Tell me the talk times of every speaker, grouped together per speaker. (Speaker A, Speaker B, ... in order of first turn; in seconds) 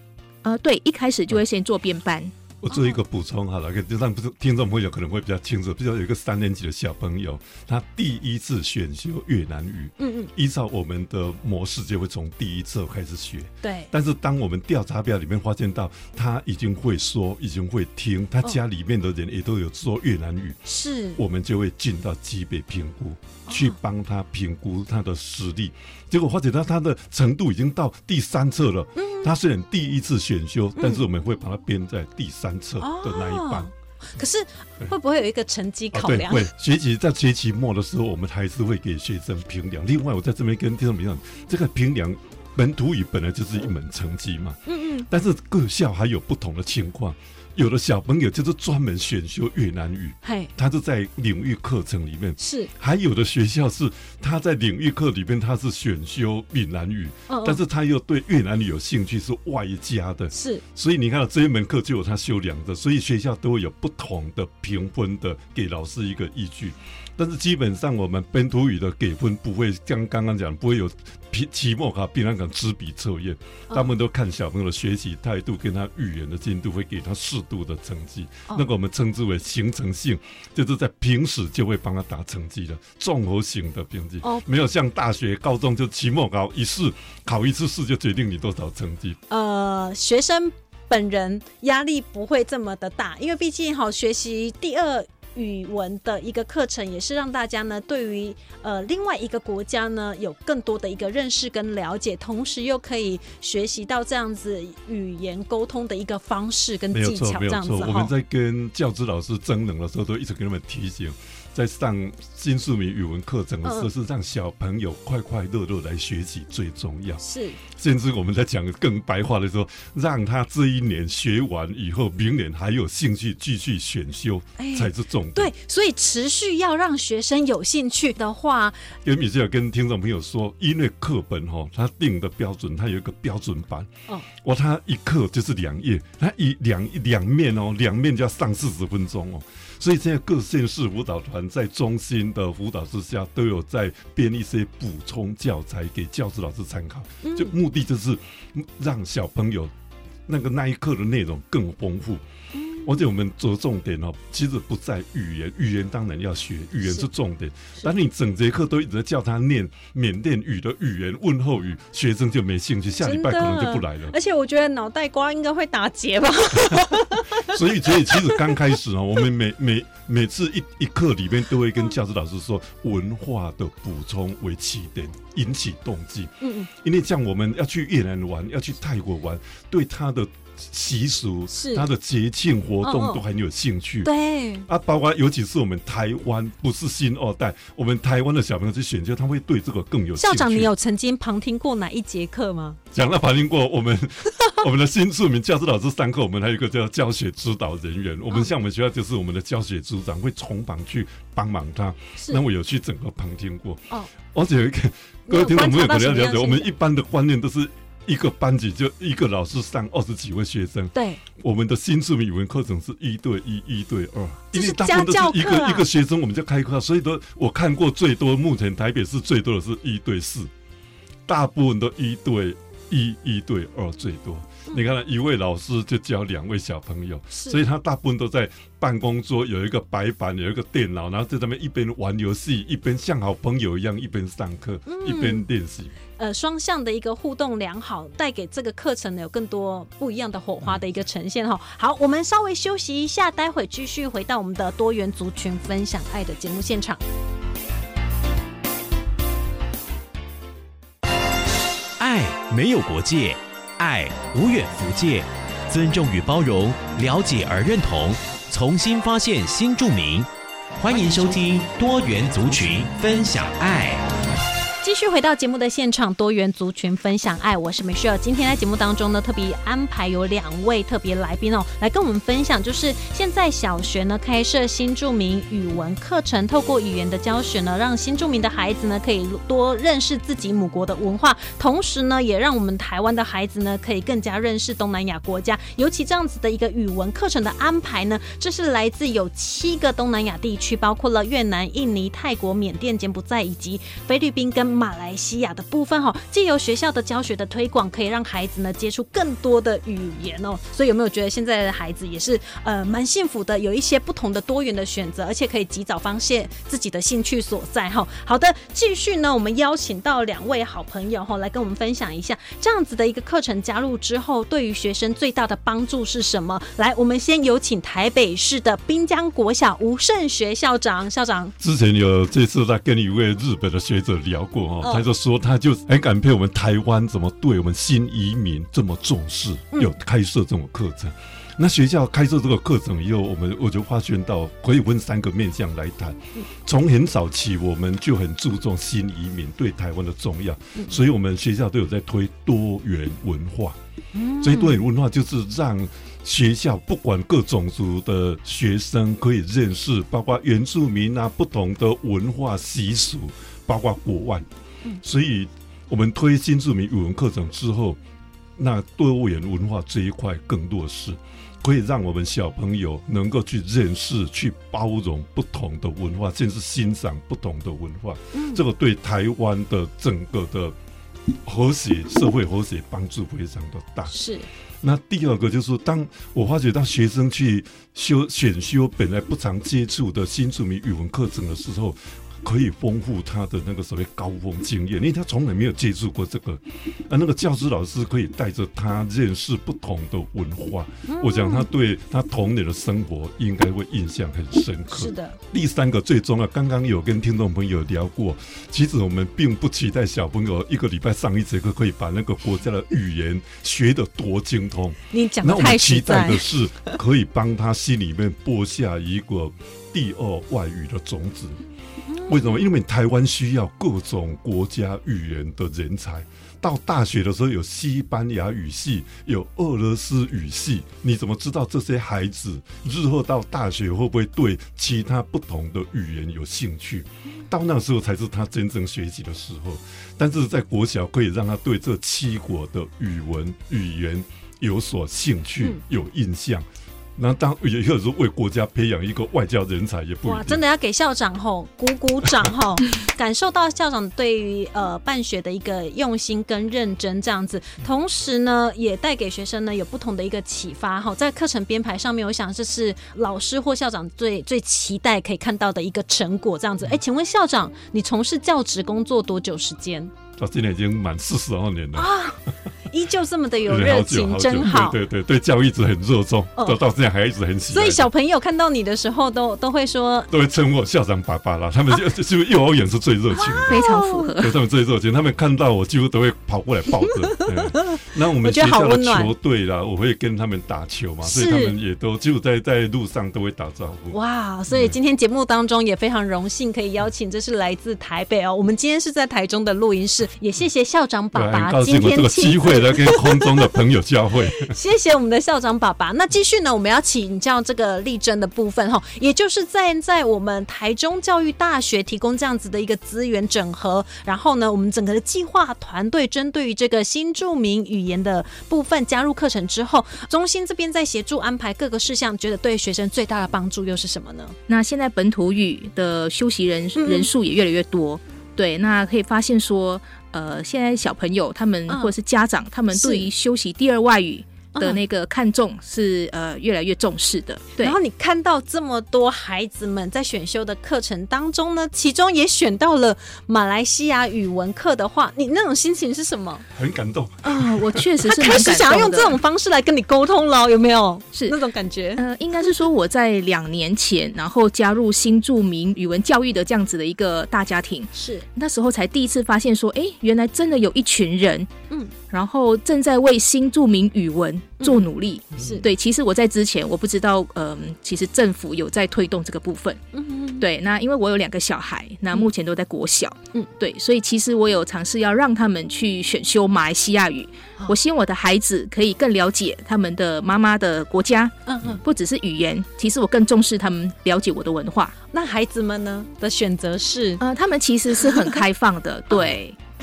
Speaker A: 0.4-2.3, 473.5-474.6, 514.7-528.0, 537.4-539.4, 542.1-551.7, 552.3-560.0, 560.6-575.1, 577.4-579.8
Speaker B: 2.6-20.6, 21.2-33.7, 35.9-89.2, 106.9-125.5, 129.0-149.7, 150.3-152.2, 152.8-164.1, 166.7-184.1, 184.7-190.7, 192.9-220.5, 221.3-235.9, 321.6-343.8, 344.4-354.4, 355.0-358.0, 358.6-370.7, 371.4-374.1, 374.8-411.6, 412.3-436.6, 437.2-440.6, 460.4-462.2, 463.6-468.1, 470.3-473.8, 474.4-484.2, 484.7-484.9, 491.3-494.7, 536.7-538.1
Speaker C: 2.7-3.0, 10.0-10.3, 13.6-13.9, 20.6-21.2, 23.5-23.8, 28.9-29.3, 30.8-31.0, 32.8-36.5, 44.7-45.0, 50.2-50.5, 52.4-52.7, 57.3-57.6, 60.3-60.6, 89.3-108.1, 113.6-113.9, 117.2-117.6, 124.6-128.8, 147.2-147.5, 152.5-152.9, 163.0-168.5, 176.4-176.7, 181.5-181.8, 182.8-183.2, 184.0-184.7, 190.2-192.8, 205.3-206.7, 210.9-211.2, 214.5-215.8, 227.3-227.6, 234.8-235.5, 236.2-247.0, 264.8-321.5, 344.1-344.8, 368.3-368.6, 374.1-374.5, 391.1-391.7, 394.9-395.4, 405.1-406.9, 412.1-412.7, 440.2-460.1, 461.9-465.0, 467.7-470.3, 473.4-474.3, 477.0-479.3, 481.2-481.7, 484.1-493.7, 494.6-514.5, 517.0-517.3, 521.9-522.1, 522.9-523.3, 524.7-525.0, 527.8-536.6, 538.2-542.2, 548.1-548.4, 555.6-555.9, 560.1-560.6, 571.7-572.0, 575.3-577.4
Speaker D: 252.0-264.1